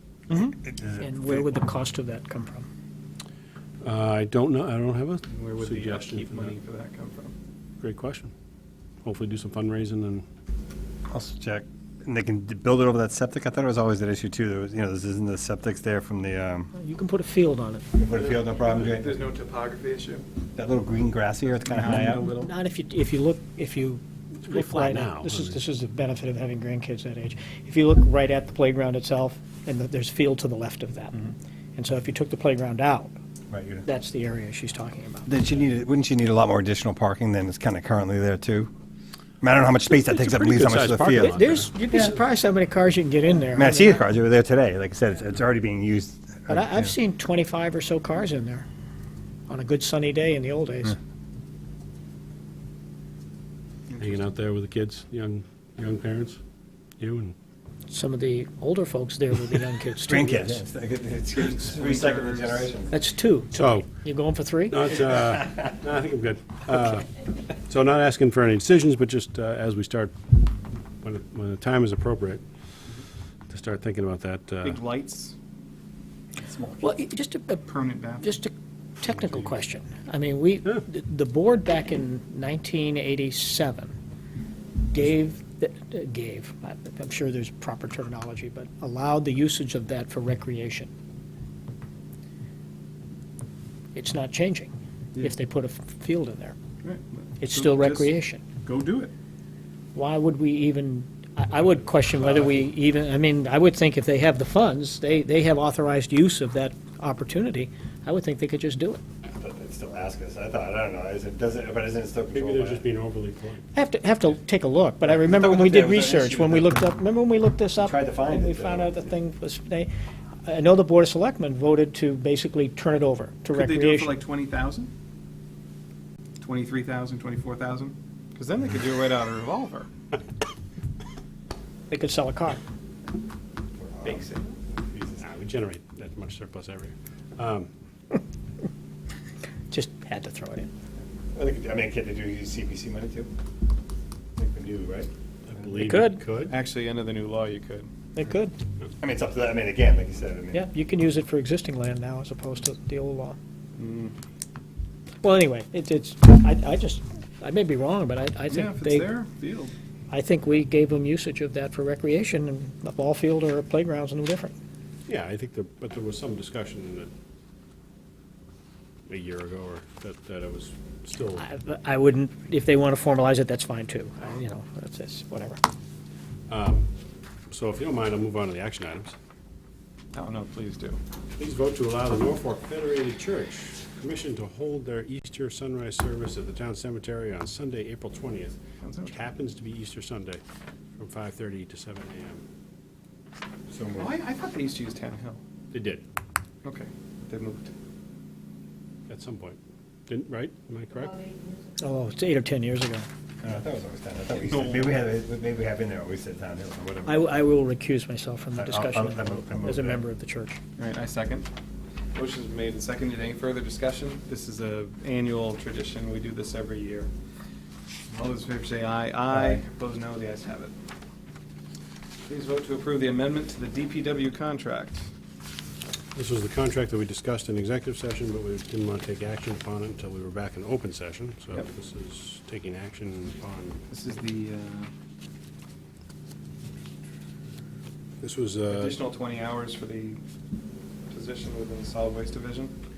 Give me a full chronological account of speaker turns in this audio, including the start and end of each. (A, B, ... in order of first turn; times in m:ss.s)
0:00.3-0:02.7 A
0:00.7-0:01.0 B
0:03.8-0:06.5 C
0:05.3-0:07.3 D
0:07.8-0:08.3 C
0:09.0-0:10.2 C
0:11.1-0:16.7 B
0:16.8-0:17.9 A
0:18.0-0:19.1 B
0:18.1-0:20.2 D
0:20.5-0:22.3 B
0:21.6-0:22.5 D
0:21.8-0:33.1 A
0:24.4-0:25.6 C
0:33.5-0:33.9 B
0:33.8-0:35.3 A
0:35.3-0:38.7 B
0:39.4-0:41.4 B
0:39.9-0:41.7 C
0:41.1-0:44.0 A
0:43.5-0:46.9 B
0:46.5-0:48.7 A
0:49.5-0:51.0 A
0:53.9-0:54.3 D
0:54.0-0:56.4 C
0:57.0-0:57.3 C
0:57.9-1:00.6 A
1:00.0-1:02.9 B
1:01.4-1:02.7 D
1:02.9-1:04.8 A
1:03.5-1:04.0 C
1:04.7-1:07.1 C
1:07.6-1:10.2 C
1:11.0-1:12.4 C
1:13.5-1:14.8 C
1:14.6-1:15.4 D
1:16.4-1:16.8 B
1:16.8-1:23.9 A
1:17.7-1:18.3 D
1:24.9-1:30.9 A
1:33.9-1:36.6 A
1:36.8-1:39.1 D
1:37.4-1:38.4 A
1:39.9-1:49.0 A
1:49.4-1:52.8 B
1:52.3-1:53.6 C
1:53.7-1:59.9 A
1:55.0-1:56.8 B
1:57.8-1:59.0 B
2:00.4-2:04.2 A
2:03.5-2:04.9 D
2:06.4-2:09.9 D
2:11.9-2:12.6 A
2:13.8-2:14.3 B
2:14.0-2:14.6 D
2:14.8-2:15.2 B
2:15.2-2:17.7 C
2:19.7-2:20.7 A
2:21.3-2:23.3 B
2:24.4-2:25.1 B
2:25.4-2:26.6 C
2:25.8-2:26.2 A
2:26.4-2:27.9 D
2:28.2-2:28.5 A
2:29.0-2:30.6 B
2:30.5-2:33.4 A
2:33.8-2:34.1 D
2:35.2-2:39.1 A
2:38.5-2:39.7 D
2:40.1-2:44.5 A
2:45.1-2:47.1 C
2:49.1-2:51.4 C
2:51.4-2:55.6 A
2:56.5-2:56.9 C
2:57.5-2:59.2 C
3:00.1-3:01.0 D
3:01.4-3:10.4 C
3:08.8-3:09.2 D
3:11.0-3:12.4 C
3:13.7-3:14.1 B
3:14.0-3:15.4 D
3:15.7-3:16.0 C
3:16.6-3:17.7 D
3:19.1-3:21.3 C
3:21.8-3:23.1 A
3:23.4-3:27.3 B
3:24.3-3:24.9 D
3:27.0-3:30.6 A
3:28.5-3:30.0 B
3:30.8-3:31.5 D
3:32.1-3:37.1 D
3:38.1-3:40.7 D
3:39.3-3:39.6 B
3:42.3-3:45.0 D
3:46.1-3:53.8 C
3:53.9-3:54.9 D
3:58.2-3:59.0 C
3:58.7-4:00.2 D
4:01.1-4:02.7 D